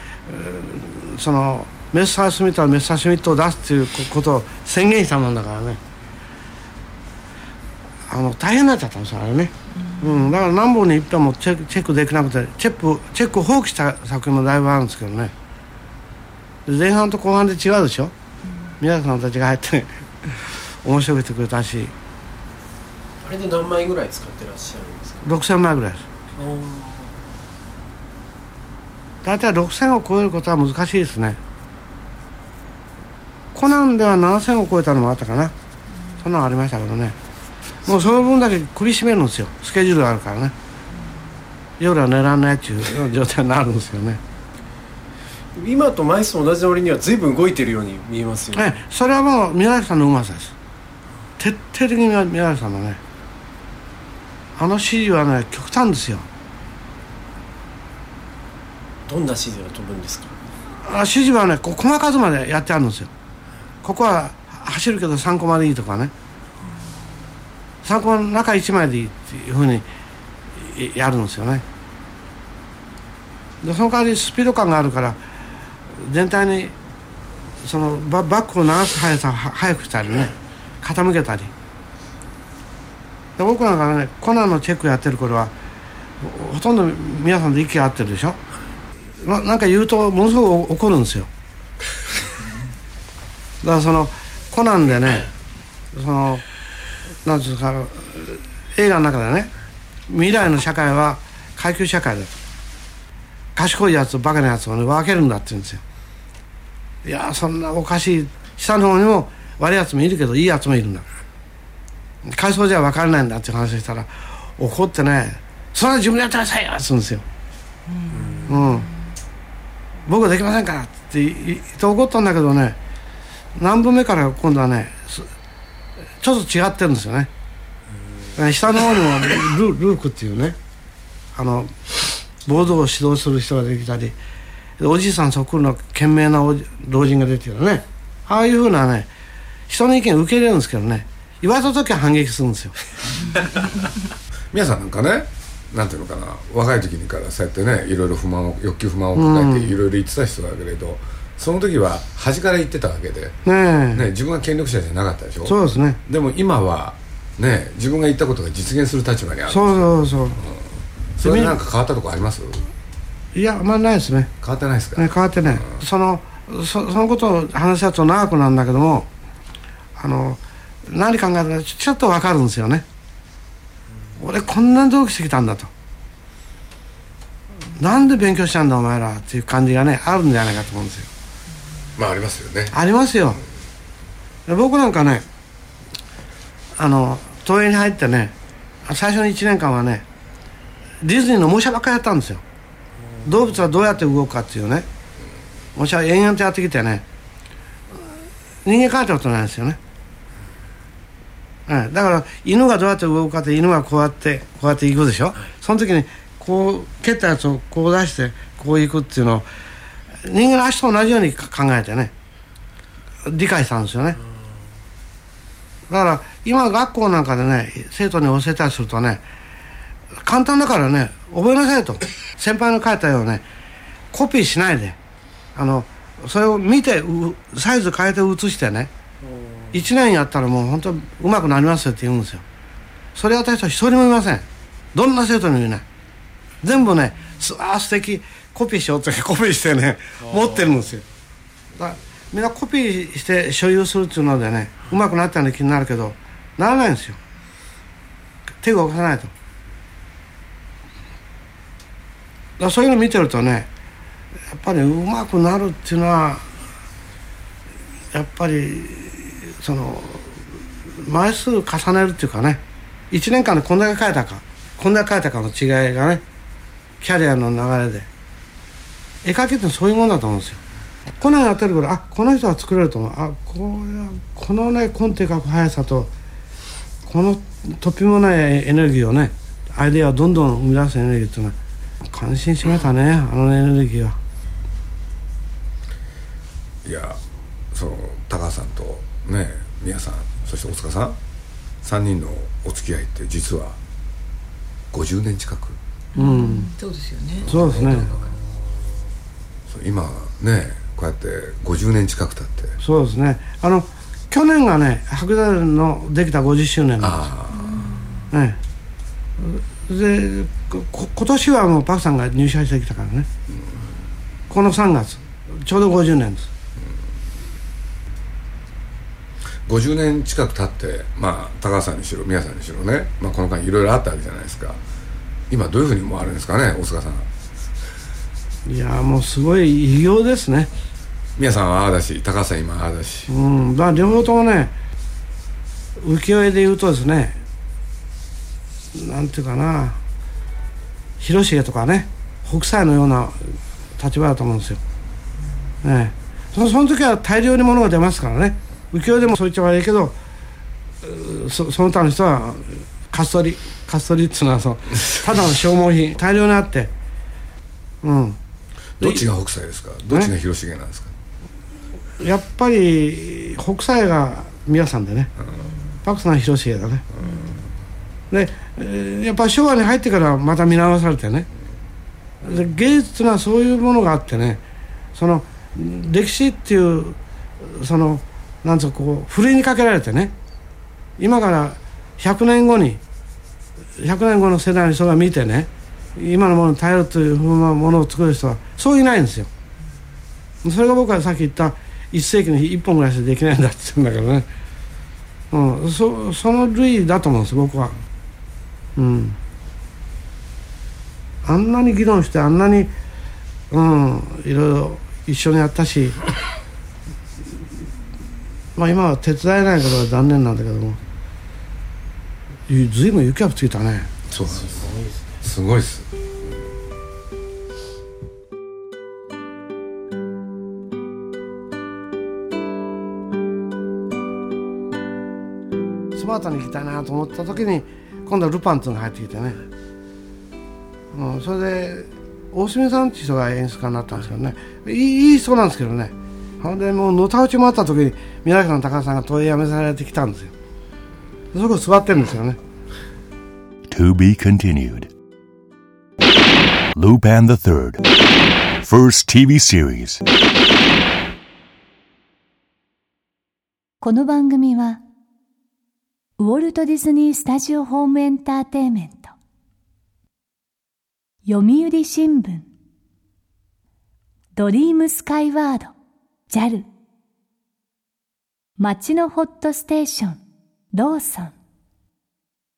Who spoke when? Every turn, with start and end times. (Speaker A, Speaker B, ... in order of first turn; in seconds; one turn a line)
Speaker A: 0.2-5.8
Speaker A: 8.1-15.3
Speaker A: 16.6-18.1
Speaker A: 18.8-21.9
Speaker B: 23.2-25.2
Speaker A: 25.2-26.0
Speaker B: 26.4-27.1
Speaker A: 29.2-31.4
Speaker A: 33.5-35.5
Speaker A: 36.2-37.1
Speaker A: 37.8-40.5
Speaker A: 41.8-44.2
Speaker B: 45.5-48.8
Speaker A: 48.5-50.5
Speaker A: 51.4-53.0
Speaker A: 54.6-56.2
Speaker B: 59.1-60.4
Speaker A: 60.8-63.1
Speaker A: 63.8-66.1
Speaker A: 67.8-69.8
Speaker A: 70.5-71.6
Speaker A: 73.6-75.2
Speaker A: 75.9-76.7
Speaker A: 77.6-81.5
Speaker A: 83.4-85.5
Speaker A: 86.2-88.4
Speaker A: 89.2-91.3
Speaker A: 93.6-95.3
Speaker A: 95.9-96.4
Speaker A: 97.2-99.5
Speaker A: 100.1-102.3
Speaker A: 103.5-105.8
Speaker A: 107.0-111.0
Speaker A: 112.2-117.2
Speaker C: 117.9-118.7
Speaker B: 118.1-118.5
Speaker A: 118.5-118.9
Speaker A: 120.1-122.8
Speaker A: 123.5-125.3
Speaker A: 126.2-127.3
Speaker A: 128.3-130.6
Speaker A: 131.3-131.7
Speaker A: 132.4-134.2
Speaker A: 134.8-139.1
Speaker A: 139.7-142.8
Speaker D: 144.5-153.3
Speaker A: 149.1-149.8
Speaker A: 153.4-154.0
Speaker D: 153.9-159.9
Speaker A: 155.4-156.0
Speaker A: 159.5-160.4
Speaker D: 161.2-162.7
Speaker A: 161.2-161.6
Speaker A: 163.3-164.3
Speaker D: 164.4-165.1
Speaker A: 164.9-169.1
Speaker A: 170.0-172.8
Speaker A: 174.2-175.7
Speaker A: 177.7-181.1
Speaker D: 182.0-182.7
Speaker A: 182.7-183.4
Speaker A: 184.5-185.2
Speaker A: 186.8-188.3
Speaker A: 188.8-190.0
Speaker A: 191.0-192.4
Speaker A: 193.2-194.8
Speaker A: 195.8-197.0
Speaker A: 198.6-199.8
Speaker A: 201.7-209.5
Speaker A: 210.2-212.1
Speaker A: 213.2-214.2
Speaker A: 215.9-219.2
Speaker A: 220.2-223.4
Speaker A: 224.1-225.0
Speaker A: 225.6-228.9
Speaker B: 229.2-229.7
Speaker A: 229.7-232.4
Speaker A: 233.1-235.8
Speaker A: 236.6-241.0
Speaker A: 241.8-247.2
Speaker A: 248.6-249.3
Speaker A: 252.6-253.7
Speaker A: 254.5-256.5
Speaker A: 258.1-266.2
Speaker A: 267.0-268.1
Speaker A: 269.2-270.6
Speaker A: 271.2-276.1
Speaker A: 277.1-281.6
Speaker A: 282.1-284.2
Speaker D: 286.8-287.2
Speaker D: 287.7-291.2
Speaker D: 291.8-293.8
Speaker D: 294.9-295.8
Speaker A: 296.2-296.7
Speaker C: 296.2-298.4
Speaker A: 297.4-298.1
Speaker D: 297.5-298.0
Speaker D: 299.7-302.8
Speaker A: 302.8-307.3
Speaker D: 307.0-307.8
Speaker A: 308.3-308.6
Speaker A: 309.4-313.3
Speaker A: 314.5-316.5
Speaker D: 319.6-324.8
Speaker D: 325.5-327.3
Speaker A: 328.6-330.7
Speaker D: 331.4-333.3
Speaker A: 333.3-334.7
Speaker A: 336.0-337.4
Speaker A: 338.9-340.0
Speaker A: 341.2-344.8
Speaker A: 345.8-350.1
Speaker A: 351.0-356.9
Speaker A: 358.0-358.4
Speaker D: 359.0-361.1
Speaker A: 362.2-365.3
Speaker A: 366.0-367.0
Speaker A: 368.3-371.5
Speaker A: 372.4-374.6
Speaker A: 375.1-380.3
Speaker A: 381.2-383.0
Speaker A: 384.0-389.5
Speaker A: 390.6-394.5
Speaker A: 395.5-397.9
Speaker A: 398.9-399.4
Speaker A: 401.4-402.9
Speaker A: 403.7-406.2
Speaker A: 408.8-411.0
Speaker A: 412.7-414.1
Speaker D: 414.3-414.9
Speaker D: 415.4-416.1
Speaker A: 426.1-429.6
Speaker A: 431.1-440.5
Speaker A: 441.5-442.6
Speaker E: 443.9-445.1
Speaker E: 446.9-448.0
Speaker E: 448.8-450.2
Speaker F: 454.0-455.0
Speaker F: 456.4-459.3
Speaker F: 461.4-462.7
Speaker F: 464.6-465.9
Speaker F: 466.5-466.9
Speaker F: 468.8-470.4
Speaker F: 470.9-471.5